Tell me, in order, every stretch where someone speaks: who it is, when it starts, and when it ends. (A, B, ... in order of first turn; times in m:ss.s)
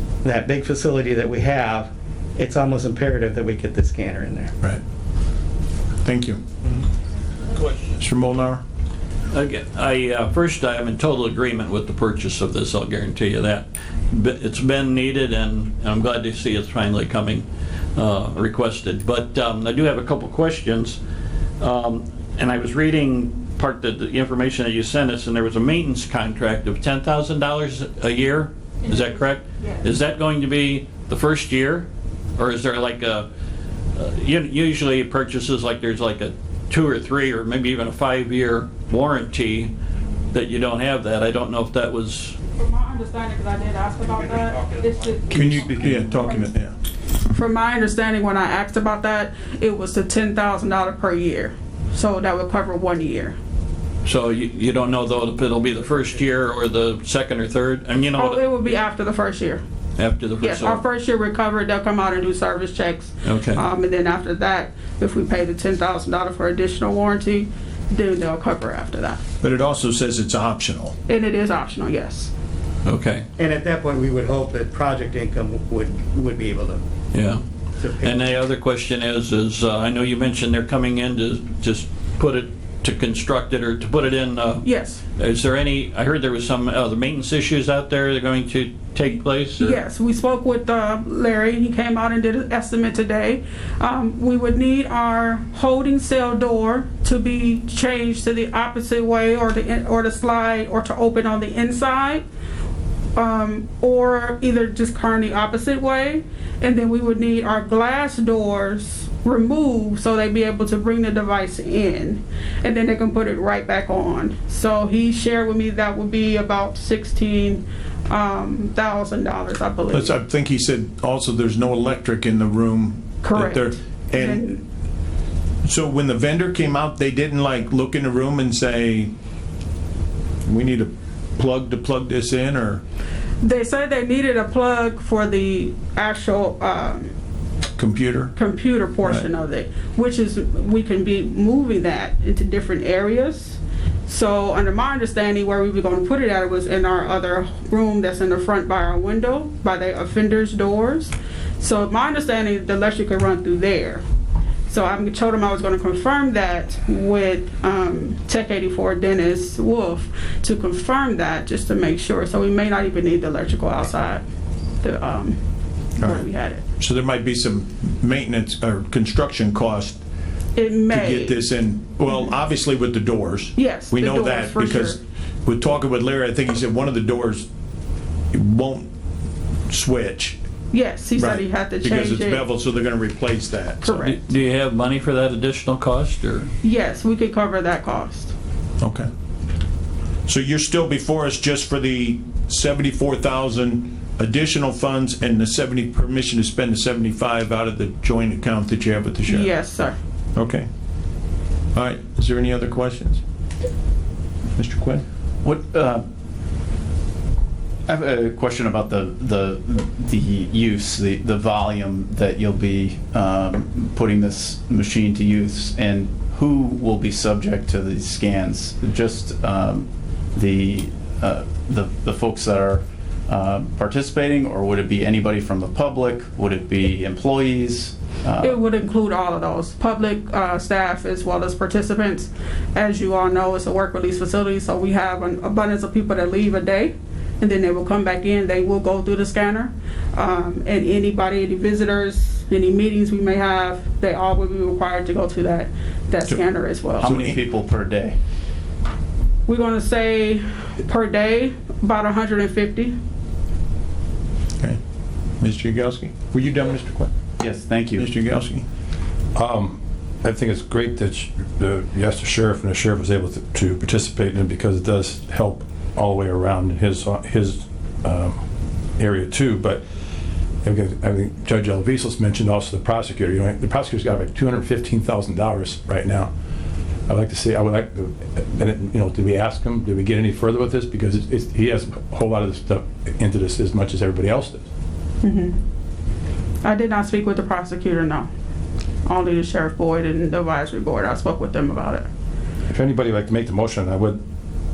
0:00.2-0:04.5 A
0:06.0-0:06.4 B
0:08.0-0:08.6 B
0:09.3-0:21.0 C
0:21.6-0:33.3 C
0:28.8-0:29.8 D
0:34.0-0:39.7 C
0:40.3-0:42.4 C
0:42.6-0:46.4 D
0:45.3-0:46.7 B
0:47.3-0:53.4 D
0:54.0-0:58.4 C
0:58.2-0:59.6 D
1:00.0-1:00.8 C
1:00.4-1:09.2 D
1:03.2-1:03.6 C
1:09.4-1:11.0 B
1:11.1-1:12.3 D
1:12.8-1:13.2 C
1:13.4-1:16.8 A
1:17.1-1:17.4 C
1:17.8-1:18.3 A
1:18.0-1:24.6 C
1:24.6-1:25.0 D
1:25.2-1:29.8 C
1:29.6-1:42.2 D
1:43.2-2:00.1 D
1:59.9-2:04.5 B
2:03.2-2:04.6 D
2:05.6-2:09.1 B
2:10.4-2:12.8 B
2:13.4-2:17.1 D
2:17.8-2:18.3 B
2:18.4-2:34.0 D
2:34.7-2:44.2 D
2:44.8-2:45.4 D
2:46.0-2:50.0 B
2:46.0-2:46.6 D
2:50.6-2:51.4 D
2:50.9-2:54.9 B
2:53.5-2:55.0 D
2:55.4-2:57.5 B
2:58.3-2:58.9 B
2:59.7-3:00.4 B
3:00.7-3:02.4 D
3:01.2-3:03.9 B
3:03.8-3:04.2 D
3:03.9-3:06.5 C
3:06.6-3:08.3 D
3:08.8-3:09.1 B
3:10.3-3:19.5 B
3:19.3-3:20.0 D
3:20.3-3:20.7 B
3:21.7-3:23.2 B
3:24.6-3:25.0 B
3:25.4-3:26.0 E
3:27.8-3:48.6 E
3:48.4-4:07.0 D
4:07.0-4:08.2 E
4:07.0-4:07.4 B
4:09.5-4:13.0 D
4:15.4-4:17.1 B
4:17.4-4:18.0 E
4:18.0-4:18.6 B
4:19.3-4:28.4 F
4:29.0-4:29.8 F
4:30.6-4:36.3 F
4:37.1-4:44.6 F
4:45.2-4:45.6 D
4:46.6-4:48.3 D
4:49.0-4:52.1 D
4:52.7-4:54.2 F